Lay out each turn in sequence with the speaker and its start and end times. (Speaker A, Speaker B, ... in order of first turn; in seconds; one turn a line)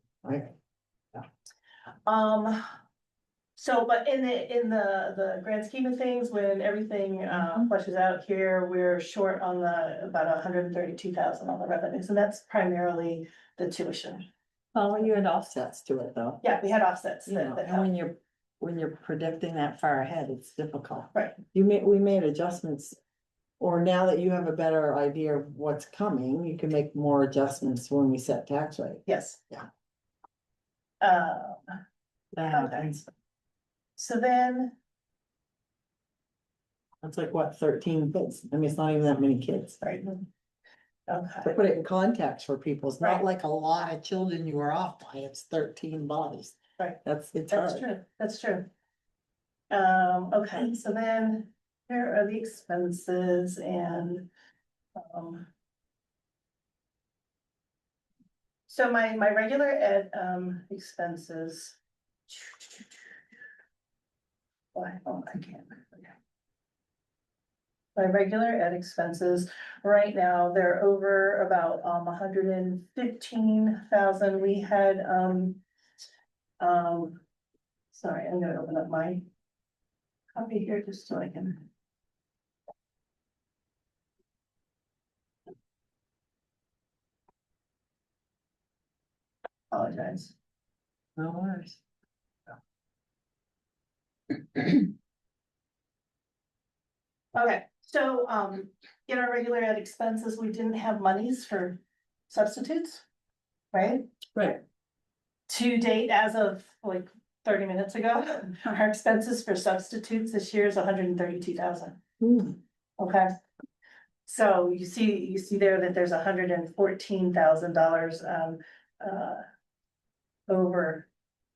Speaker A: 0.2-0.5
Speaker B: 2.0-2.6
Speaker B: 3.5-14.3
Speaker A: 7.4-7.7
Speaker A: 14.7-16.4
Speaker B: 16.4-17.9
Speaker A: 17.2-23.0
Speaker A: 23.6-29.7
Speaker B: 29.1-29.4
Speaker B: 31.0-31.8
Speaker A: 32.3-33.1
Speaker B: 32.5-33.0
Speaker B: 34.0-34.7
Speaker A: 37.0-39.8
Speaker B: 39.8-40.2
Speaker B: 41.1-41.5
Speaker A: 41.4-47.8
Speaker B: 46.8-48.7
Speaker B: 49.7-54.3
Speaker B: 55.0-55.5
Speaker B: 58.7-61.8
Speaker B: 62.3-63.1
Speaker B: 64.7-66.1
Speaker B: 68.0-75.6
Speaker B: 76.6-77.2
Speaker B: 77.9-79.2
Speaker B: 80.3-81.7
Speaker B: 89.7-90.3
Speaker A: 91.2-91.8
Speaker B: 97.3-103.0
Speaker B: 103.7-104.1
Speaker B: 105.5-112.0
Speaker A: 112.2-112.6
Speaker B: 113.0-113.3
Speaker B: 114.2-119.4
Speaker B: 120.5-121.1